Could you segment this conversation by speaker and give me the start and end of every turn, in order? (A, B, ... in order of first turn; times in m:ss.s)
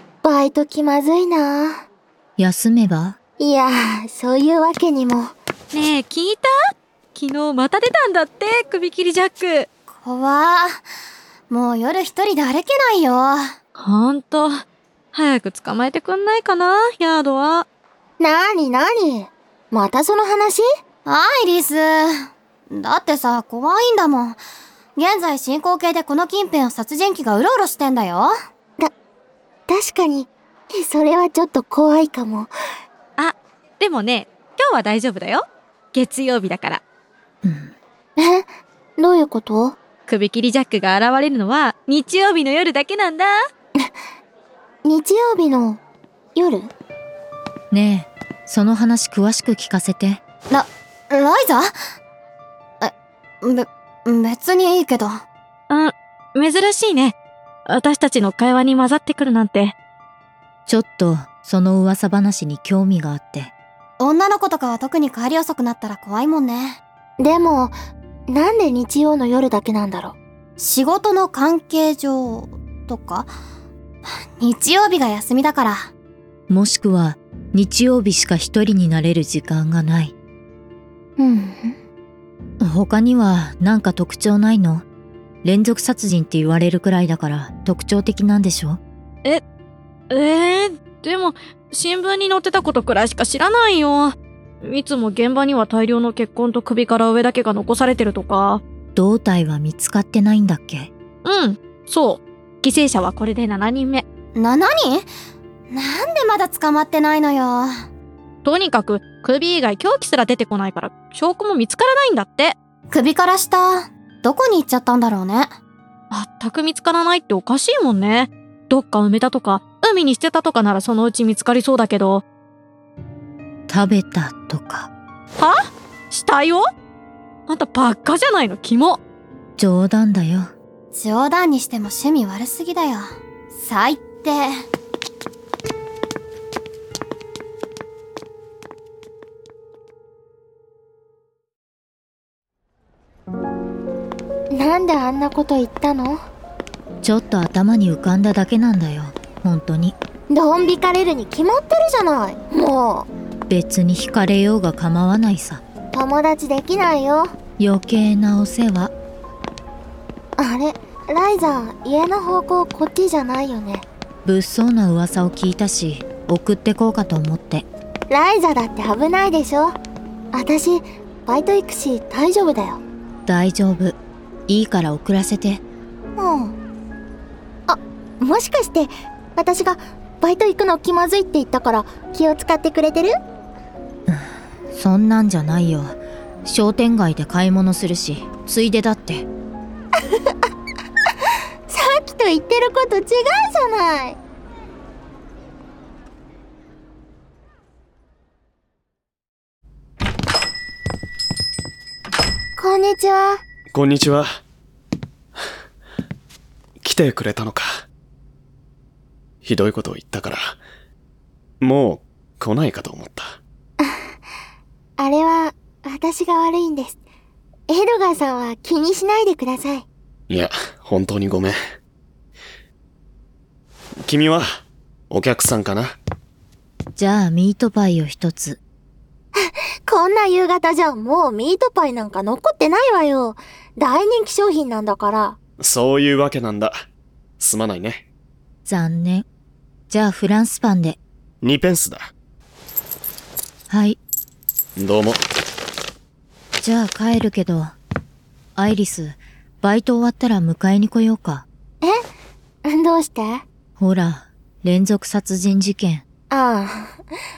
0:00.2-0:01.7 A
0:02.4-0:03.2 B
0:03.4-0:05.3 A
0:05.7-0:06.5 C
0:07.1-0:09.7 C
0:10.0-0:10.8 D
0:11.5-0:13.6 D
0:13.8-0:17.6 C
0:18.2-0:20.6 A
0:21.0-0:24.4 D
0:25.0-0:28.3 D
0:29.7-0:32.5 A
0:33.2-0:36.8 C
0:37.4-0:37.7 B
0:38.2-0:38.4 A
0:39.0-0:39.8 A
0:40.1-0:43.3 C
0:44.8-0:45.8 A
0:46.4-0:46.7 A
0:47.7-0:50.2 B
0:50.5-0:51.7 D
0:52.8-0:55.2 D
0:55.7-0:57.1 C
0:57.7-0:59.7 C
1:00.7-1:03.5 B
1:04.0-1:06.8 D
1:07.2-1:07.7 A
1:08.3-1:10.2 A
1:10.6-1:13.3 D
1:14.4-1:15.9 D
1:16.5-1:20.1 B
1:21.2-1:21.8 A
1:22.6-1:24.8 B
1:25.4-1:28.8 B
1:30.1-1:38.6 C
1:39.0-1:40.9 B
1:41.2-1:44.0 C
1:44.3-1:45.1 D
1:45.7-1:47.7 D
1:48.4-1:52.6 C
1:52.9-1:55.5 D
1:56.1-2:02.2 C
2:03.7-2:04.9 B
2:06.1-2:06.6 C
2:07.5-2:09.0 C
2:09.6-2:10.5 B
2:10.9-2:14.5 D
2:24.5-2:26.2 A
2:27.0-2:30.0 B
2:30.3-2:33.1 A
2:33.5-2:35.6 B
2:35.9-2:37.3 A
2:37.6-2:38.9 B
2:40.4-2:43.8 A
2:44.2-2:47.6 B
2:48.1-2:49.7 A
2:50.3-2:52.8 A
2:53.2-2:55.6 B
2:56.2-2:56.6 A
2:57.7-3:03.1 A
3:04.1-3:09.2 B
3:11.7-3:14.2 A
3:22.6-3:23.4 A
3:23.7-3:24.3 E
3:26.8-3:27.7 E
3:29.4-3:30.4 E
3:31.6-3:33.3 E
3:35.0-3:37.0 A
3:37.7-3:39.9 A
3:40.3-3:41.6 E
3:44.0-3:44.4 E
3:45.1-3:45.8 E
3:47.0-3:48.6 B
3:49.4-3:55.4 A
3:55.6-3:56.7 E
3:57.4-3:58.0 E
3:58.6-3:59.2 B
3:59.9-4:01.0 B
4:01.4-4:02.1 E
4:03.7-4:04.0 B
4:04.8-4:05.2 E
4:06.6-4:07.7 B
4:08.6-4:11.4 B
4:12.6-4:13.4 A
4:13.8-4:16.0 B
4:16.3-4:16.9 A